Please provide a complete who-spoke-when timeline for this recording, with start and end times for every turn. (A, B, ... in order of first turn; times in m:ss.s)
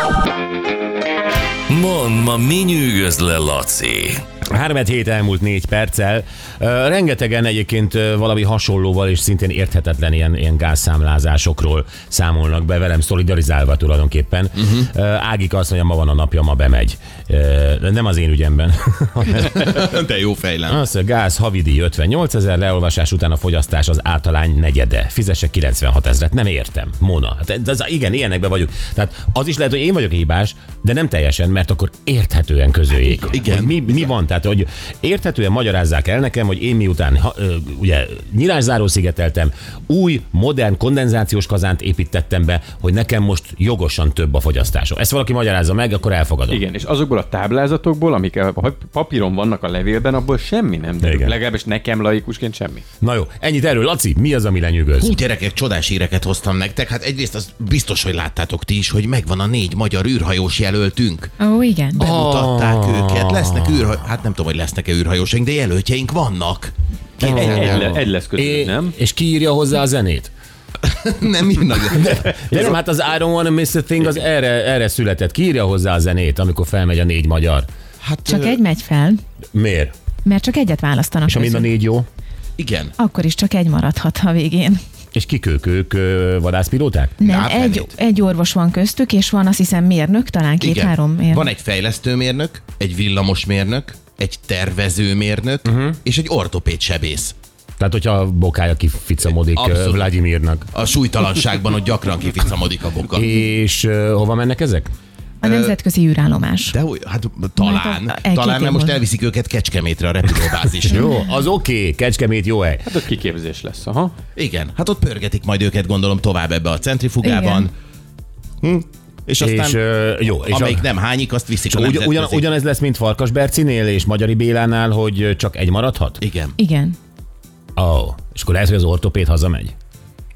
0:01.7-0:04.2 A
0:04.4-0:19.7 B
0:19.4-0:20.8 C
0:20.7-0:46.6 B
0:33.3-0:34.1 C
0:46.5-0:52.8 D
0:51.0-0:51.3 B
0:53.0-0:55.2 B
0:55.0-1:01.3 C
1:01.4-1:02.0 E
1:01.9-1:07.9 C
1:02.0-1:03.9 B
1:07.2-1:10.3 B
1:07.2-1:09.0 D
1:10.8-1:12.7 C
1:11.9-1:17.7 B
1:18.0-1:18.6 C
1:18.2-1:19.2 E
1:19.5-1:19.9 B
1:20.2-1:21.7 E
1:21.2-1:22.0 B
1:22.6-1:22.9 C
1:23.0-1:24.8 E
1:25.1-1:27.2 B
1:27.2-1:27.9 C
1:27.2-1:31.5 E
1:30.6-1:37.3 C
1:35.6-1:36.0 B
1:37.8-1:40.7 B
1:39.3-1:40.1 C
1:40.7-1:43.2 C
1:43.1-1:44.9 B
1:45.4-1:46.8 E
1:45.4-1:45.8 C
1:46.7-1:51.0 C
1:47.6-1:49.0 E
1:50.8-1:52.8 B
1:51.0-1:51.2 E
1:52.8-1:54.1 D
1:54.4-1:57.7 C
1:57.2-1:57.7 E
1:58.6-1:59.8 C
1:59.4-2:00.9 B
2:00.4-2:02.5 C
2:01.7-2:06.2 B
2:06.2-2:06.6 C
2:06.6-2:07.0 E
2:07.8-2:09.7 B